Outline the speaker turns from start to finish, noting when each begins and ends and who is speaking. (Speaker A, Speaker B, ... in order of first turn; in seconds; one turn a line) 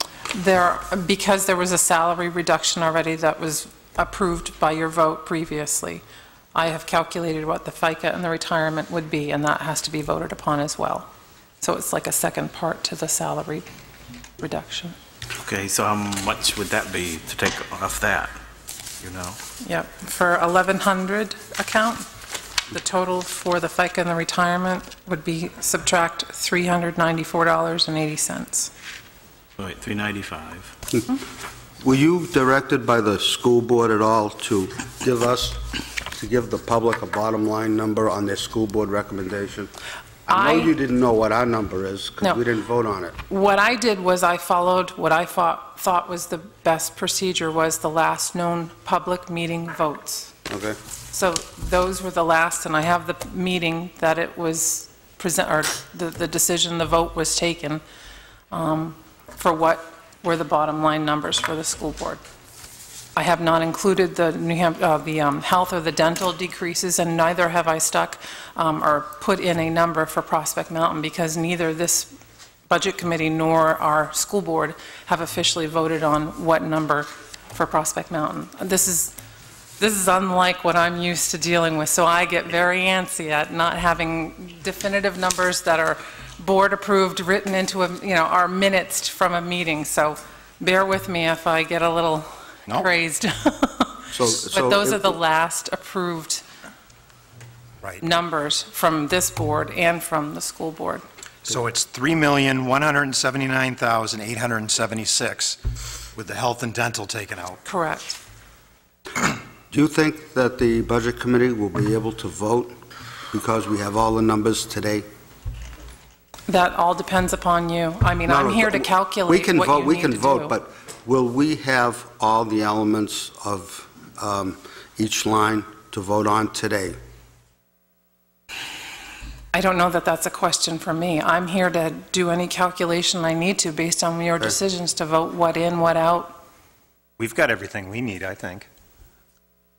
Speaker A: 0.3-6.0
Speaker A: 6.5-11.1
Speaker A: 11.6-13.7
Speaker A: 14.4-14.9
Speaker B: 15.4-18.4
Speaker B: 19.0-19.4
Speaker A: 19.6-22.1
Speaker A: 22.7-28.7
Speaker B: 29.6-30.7
Speaker C: 31.8-35.6
Speaker C: 36.1-39.7
Speaker C: 40.3-43.2
Speaker A: 40.3-40.7
Speaker A: 43.3-50.3
Speaker C: 50.5-50.8
Speaker A: 51.1-57.8
Speaker A: 58.5-62.2
Speaker A: 63.2-72.1
Speaker A: 72.7-79.1
Speaker A: 79.8-96.4
Speaker C: 94.1-95.2
Speaker A: 98.0-101.0
Speaker D: 101.5-105.6
Speaker D: 106.2-107.6
Speaker A: 107.7-108.2
Speaker C: 109.7-112.7
Speaker C: 113.3-115.1
Speaker A: 116.5-120.5
Speaker C: 118.3-127.0
Speaker A: 129.5-136.4
Speaker D: 137.2-138.7